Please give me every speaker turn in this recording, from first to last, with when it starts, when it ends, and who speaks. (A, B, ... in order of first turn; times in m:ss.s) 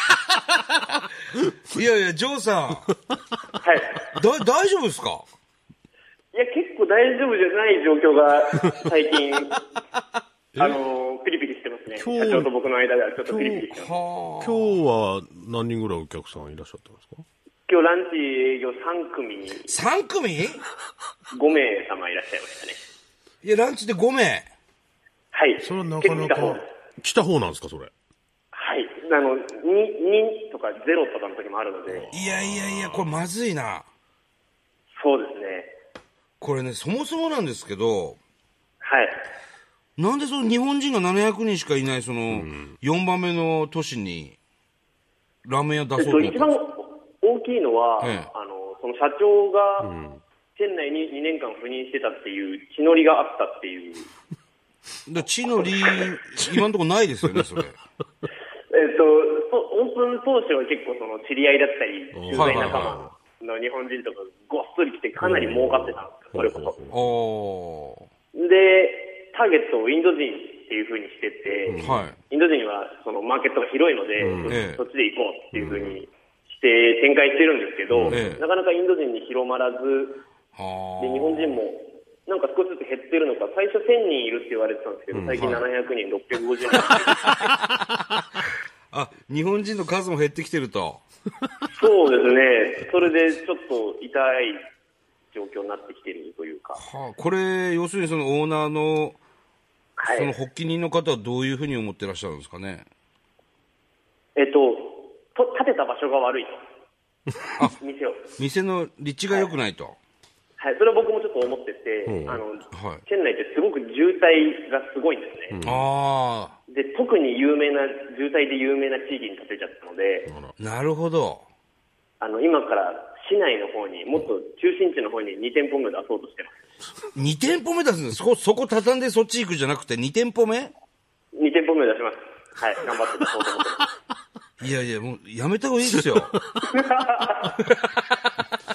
0:01.6-0:02.9 A
0:03.6-0:04.0 B
0:04.1-0:05.3 A
0:06.3-0:09.7 B
0:10.5-0:10.8 C
0:10.6-0:13.9 B
0:11.9-0:12.5 C
0:13.2-0:13.7 C
0:13.7-0:14.8 A
0:14.4-0:17.2 C
0:17.7-0:19.8 B
0:19.7-0:20.6 A
0:21.3-0:22.8 B
0:23.4-0:24.5 A
0:25.3-0:26.6 B
0:25.6-0:27.9 C
0:28.5-0:32.1 B
0:31.9-0:33.1 C
0:32.1-0:33.8 A
0:35.0-0:35.7 B
0:36.4-0:38.2 A
0:38.8-0:39.2 B
0:40.0-0:44.4 A
0:42.3-0:42.8 C
0:45.4-0:46.5 A
0:46.0-0:49.9 B
0:48.0-0:48.3 A
0:49.8-0:50.2 C
0:50.6-0:54.1 B
0:55.0-0:57.8 A
0:58.7-1:06.8 B
1:02.1-1:03.1 C
1:02.4-1:03.0 A
1:05.2-1:07.0 C
1:06.9-1:08.1 A
1:08.3-1:20.2 B
1:11.7-1:12.0 C
1:11.8-1:12.2 A
1:14.2-1:14.6 C
1:14.5-1:14.8 A
1:15.5-1:16.0 C
1:17.9-1:18.4 C
1:18.1-1:18.4 A
1:20.6-1:21.6 A
1:21.0-1:27.4 B
1:25.1-1:25.7 C
1:28.9-1:31.0 A
1:31.7-1:34.6 B
1:35.3-1:36.8 B
1:36.8-1:39.2 A
1:40.0-1:40.3 B
1:40.1-1:42.8 A
1:44.4-1:46.6 B
1:47.8-1:48.3 B
1:48.4-1:50.0 A
1:50.6-1:55.6 B
1:52.0-1:52.4 C
1:52.7-1:53.0 A
1:55.5-1:55.8 C
1:55.6-1:56.6 A
1:56.7-2:00.3 B
2:00.3-2:00.5 C
2:00.6-2:01.4 A
2:02.2-2:06.6 B
2:07.1-2:10.7 A
2:11.3-2:13.9 B
2:14.6-2:16.4 A
2:16.7-2:17.6 B